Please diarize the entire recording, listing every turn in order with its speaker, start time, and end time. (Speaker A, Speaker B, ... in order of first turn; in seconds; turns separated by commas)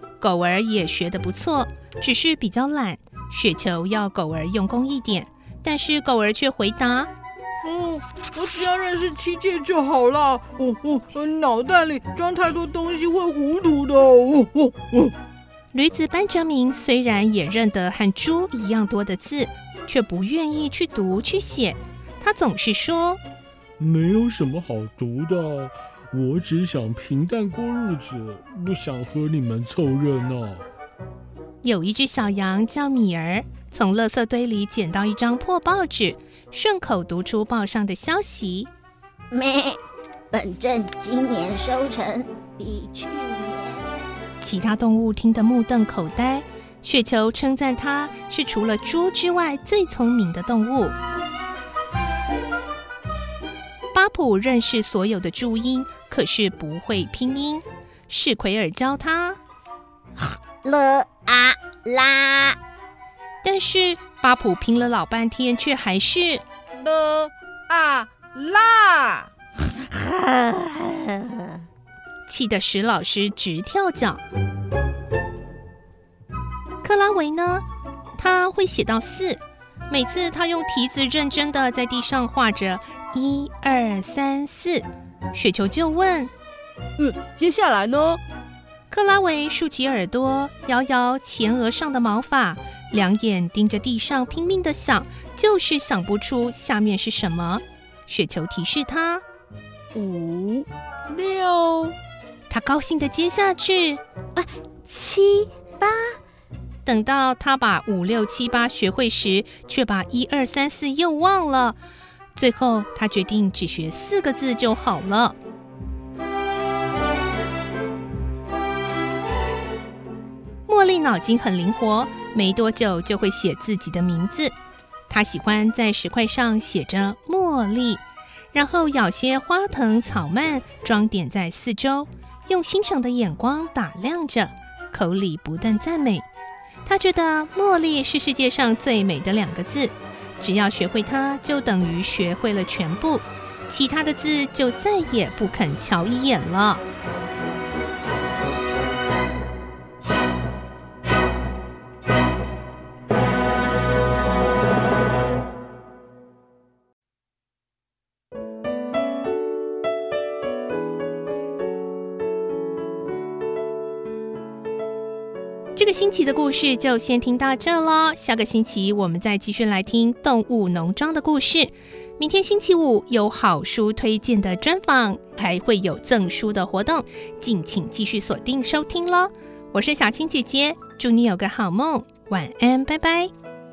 Speaker A: 0.2-7.1, Speaker B: 7.7-15.1, Speaker A: 15.7-23.2, Speaker C: 23.8-30.7, Speaker A: 31.6-38.7, Speaker D: 39.3-39.8, Speaker D: 40.3-43.9, Speaker A: 44.4-51.0, Speaker A: 53.9-59.4, Speaker D: 60.6-62.6, Speaker A: 63.4-66.4, Speaker D: 69.9-71.2, Speaker A: 72.3-74.2, Speaker A: 76.8-77.7, Speaker A: 78.2-86.3, Speaker E: 87.0-88.2, Speaker A: 88.9-99.2, Speaker E: 99.9-102.0, Speaker A: 102.5-104.0, Speaker D: 104.4-105.9, Speaker A: 106.8-111.8, Speaker A: 112.3-115.4, Speaker A: 120.7-124.5, Speaker A: 125.1-136.3, Speaker A: 136.8-146.8, Speaker A: 165.8-183.3